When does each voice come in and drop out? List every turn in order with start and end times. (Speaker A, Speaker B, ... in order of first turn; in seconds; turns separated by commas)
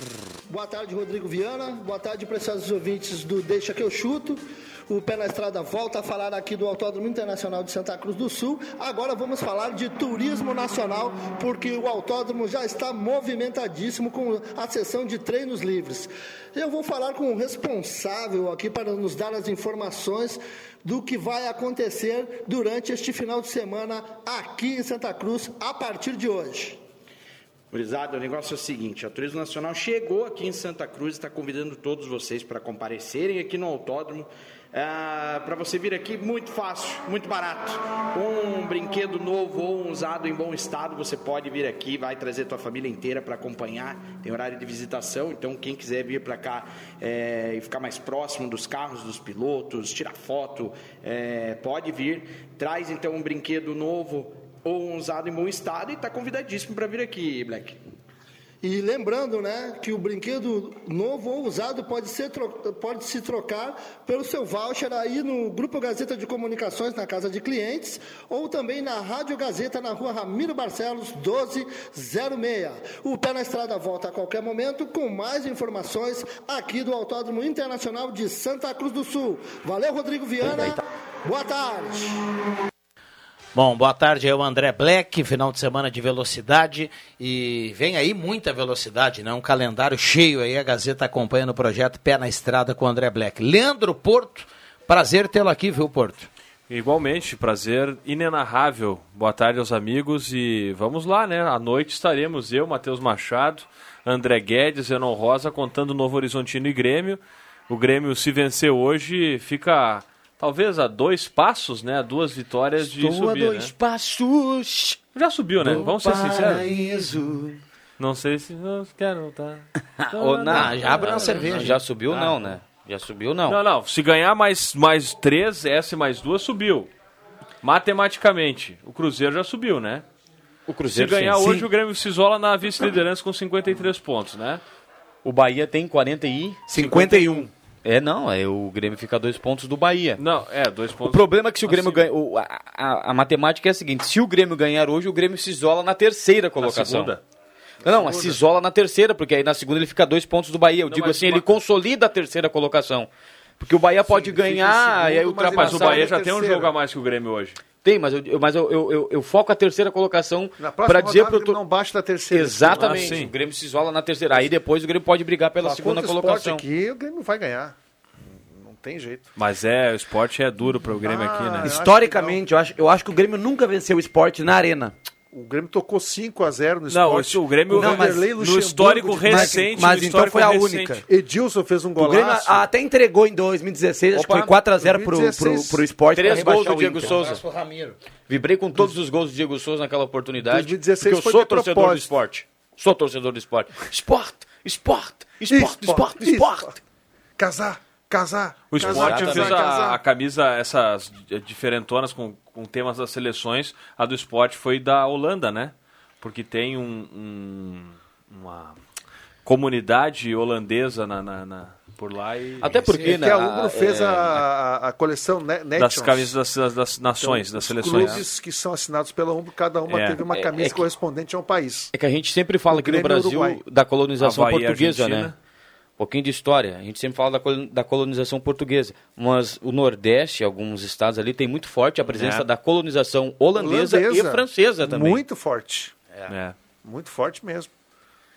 Speaker A: 0.5-26.8, Speaker B: 27.7-57.8, Speaker A: 58.6-82.2, Speaker C: 83.5-96.3, Speaker D: 96.7-113.7, Speaker E: 112.8-115.0, Speaker D: 115.2-116.7, Speaker C: 115.6-117.6, Speaker D: 118.0-121.5, Speaker E: 120.0-123.6, Speaker C: 120.5-122.4, Speaker D: 123.5-126.9, Speaker D: 127.6-130.1, Speaker E: 130.7-131.4, Speaker D: 130.9-134.6, Speaker F: 131.4-131.7, Speaker E: 135.2-140.2, Speaker F: 136.7-137.5, Speaker D: 140.2-142.1, Speaker E: 141.1-147.2, Speaker D: 146.6-147.2, Speaker G: 147.8-148.4, Speaker E: 147.8-153.1, Speaker D: 150.9-151.4, Speaker E: 153.6-156.1, Speaker G: 154.0-156.8, Speaker D: 155.5-157.6, Speaker E: 157.8-161.6, Speaker G: 160.6-163.2, Speaker E: 162.3-166.6, Speaker D: 162.7-163.3, Speaker G: 165.6-167.8, Speaker G: 168.6-169.3, Speaker D: 169.4-171.8, Speaker G: 171.0-172.4, Speaker F: 171.6-174.9, Speaker G: 175.3-179.7, Speaker D: 176.9-181.0, Speaker F: 177.7-178.3, Speaker F: 179.2-181.0, Speaker G: 181.1-182.7, Speaker F: 182.0-187.1, Speaker E: 184.1-184.6, Speaker G: 184.8-185.8, Speaker E: 186.1-187.4, Speaker C: 187.0-188.0, Speaker E: 188.3-196.8, Speaker G: 190.5-192.1, Speaker G: 195.5-196.8, Speaker G: 197.4-200.0, Speaker D: 198.7-208.8, Speaker E: 198.8-199.6, Speaker D: 209.4-212.9, Speaker E: 212.6-214.4, Speaker G: 212.9-216.3, Speaker D: 215.8-218.2, Speaker G: 217.1-221.9, Speaker E: 218.0-218.2, Speaker D: 219.9-220.2, Speaker E: 220.3-220.8, Speaker E: 221.9-225.3, Speaker G: 222.7-223.6, Speaker D: 224.2-225.3, Speaker E: 226.0-235.2, Speaker D: 232.1-232.5, Speaker G: 233.6-235.9, Speaker D: 236.3-236.6, Speaker G: 236.8-237.7